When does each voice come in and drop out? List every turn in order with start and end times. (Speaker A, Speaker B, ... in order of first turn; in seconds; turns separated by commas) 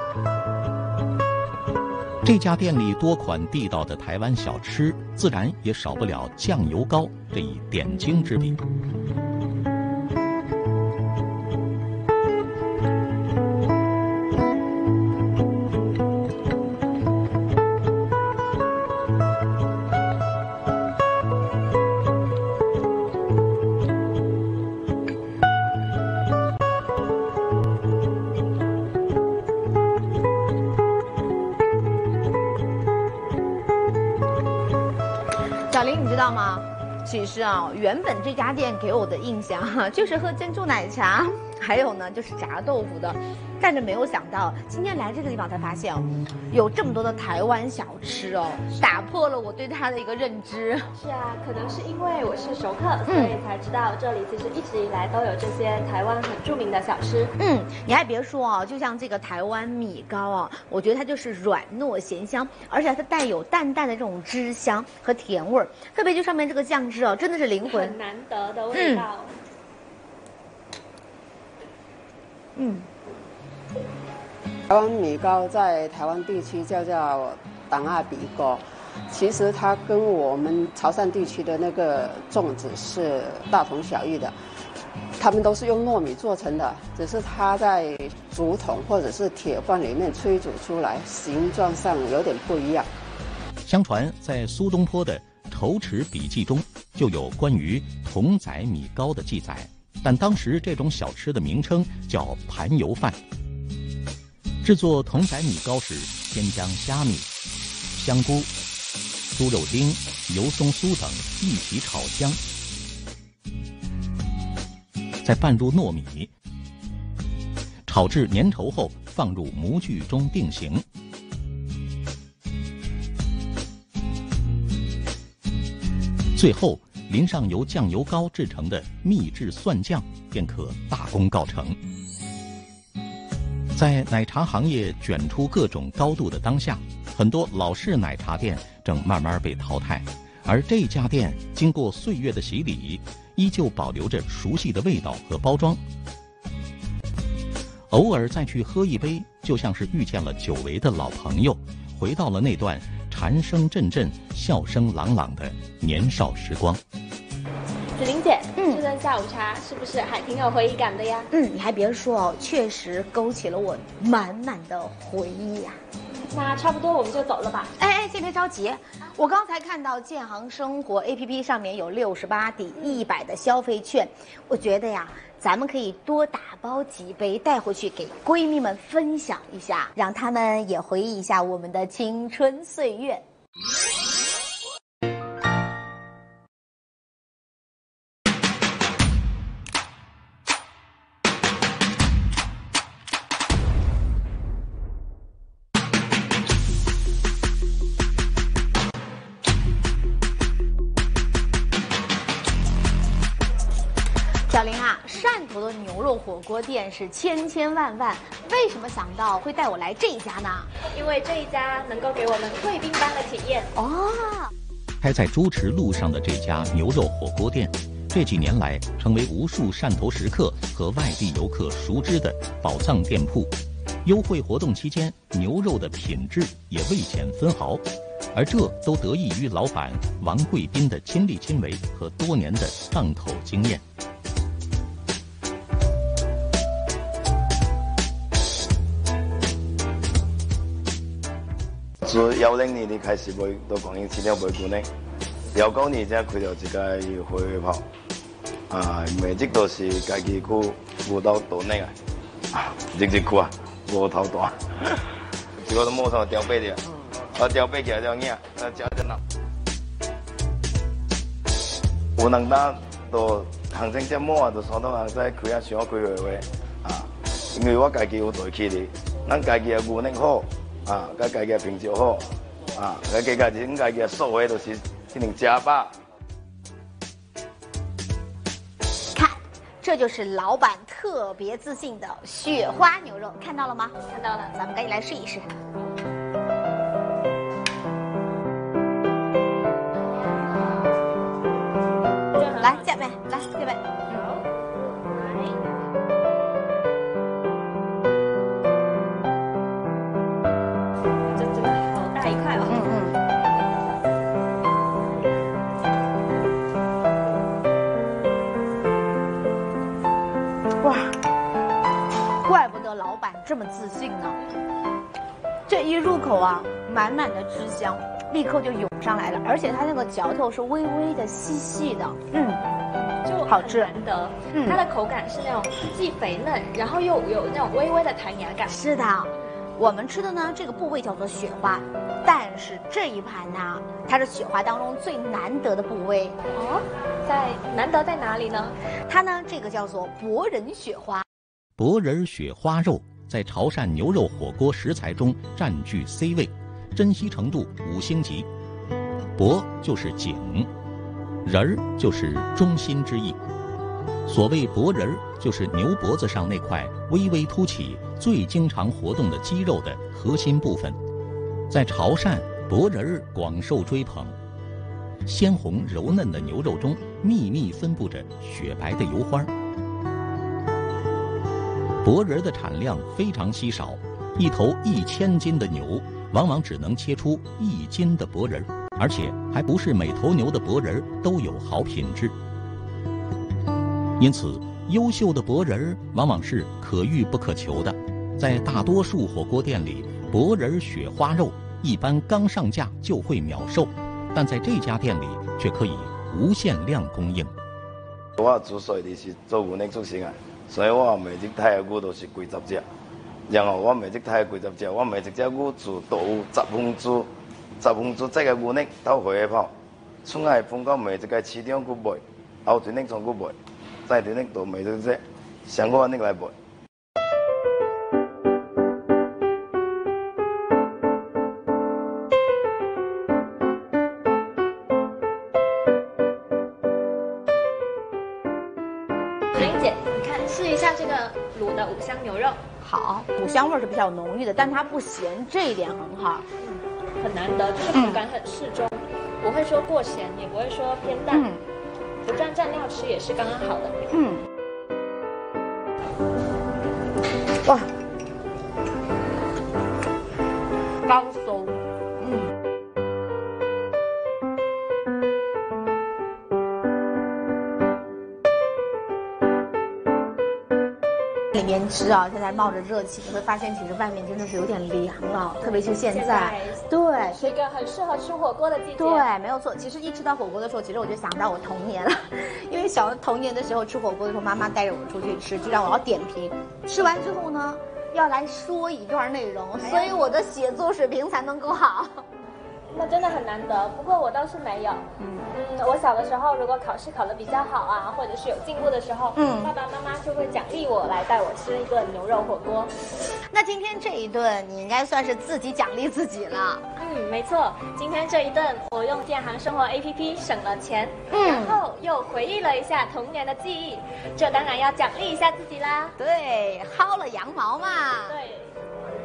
Speaker A: 2.2-8.6, Speaker B: 35.7-50.9, Speaker C: 50.9-57.3, Speaker B: 53.1-53.3, Speaker B: 57.4-68.0, Speaker C: 67.6-69.3, Speaker B: 68.7-69.1, Speaker B: 72.5-72.9, Speaker D: 74.7-84.3, Speaker D: 85.2-92.9, Speaker A: 93.6-103.2, Speaker A: 104.6-107.3, Speaker A: 107.9-108.5, Speaker A: 109.3-112.4, Speaker A: 115.2-116.3, Speaker A: 117.9-120.8, Speaker A: 126.3-131.8, Speaker A: 133.7-145.8, Speaker A: 147.9-156.8, Speaker C: 157.9-161.3, Speaker B: 158.6-158.8, Speaker B: 161.3-165.8, Speaker C: 166.2-167.7, Speaker B: 167.8-183.2, Speaker B: 204.5-210.7, Speaker C: 210.9-213.7, Speaker B: 213.8-214.5, Speaker A: 215.0-233.8, Speaker E: 242.0-244.9, Speaker E: 245.5-247.8, Speaker E: 248.7-251.9, Speaker E: 252.5-255.0, Speaker E: 255.6-256.8, Speaker E: 257.3-259.2, Speaker E: 262.2-272.2, Speaker E: 272.8-275.9, Speaker B: 279.1-283.9, Speaker C: 284.1-284.5, Speaker B: 284.5-285.5, Speaker C: 292.3-292.9, Speaker B: 292.6-294.2, Speaker C: 294.1-295.6, Speaker C: 301.3-302.8, Speaker B: 302.7-303.2, Speaker B: 310.8-311.1, Speaker B: 312.4-314.4, Speaker B: 315.7-322.6, Speaker C: 323.2-328.7, Speaker B: 323.5-323.9, Speaker B: 324.5-324.8, Speaker B: 328.7-336.4, Speaker C: 336.5-338.8, Speaker B: 339.1-341.2, Speaker A: 341.8-348.5, Speaker A: 349.4-350.7, Speaker A: 351.4-353.4, Speaker A: 354.3-361.0, Speaker A: 361.7-364.4, Speaker A: 365.2-369.5, Speaker A: 372.0-382.3, Speaker A: 384.2-397.5, Speaker E: 398.4-402.8, Speaker E: 403.5-409.7, Speaker E: 410.2-413.5, Speaker E: 414.1-416.5, Speaker C: 429.5-432.6, Speaker B: 432.8-436.4, Speaker C: 437.2-441.5, Speaker B: 437.9-438.2, Speaker B: 441.3-441.6, Speaker C: 442.2-444.0, Speaker B: 444.1-444.4, Speaker C: 451.1-451.7, Speaker B: 452.2-452.5, Speaker B: 461.5-467.5, Speaker C: 465.6-469.3, Speaker B: 469.0-482.2, Speaker C: 479.8-480.4, Speaker C: 482.9-492.9, Speaker B: 485.2-485.5, Speaker B: 489.4-489.7, Speaker B: 493.5-496.8, Speaker C: 497.0-506.1, Speaker B: 501.3-501.8, Speaker B: 506.2-508.4, Speaker C: 508.3-508.7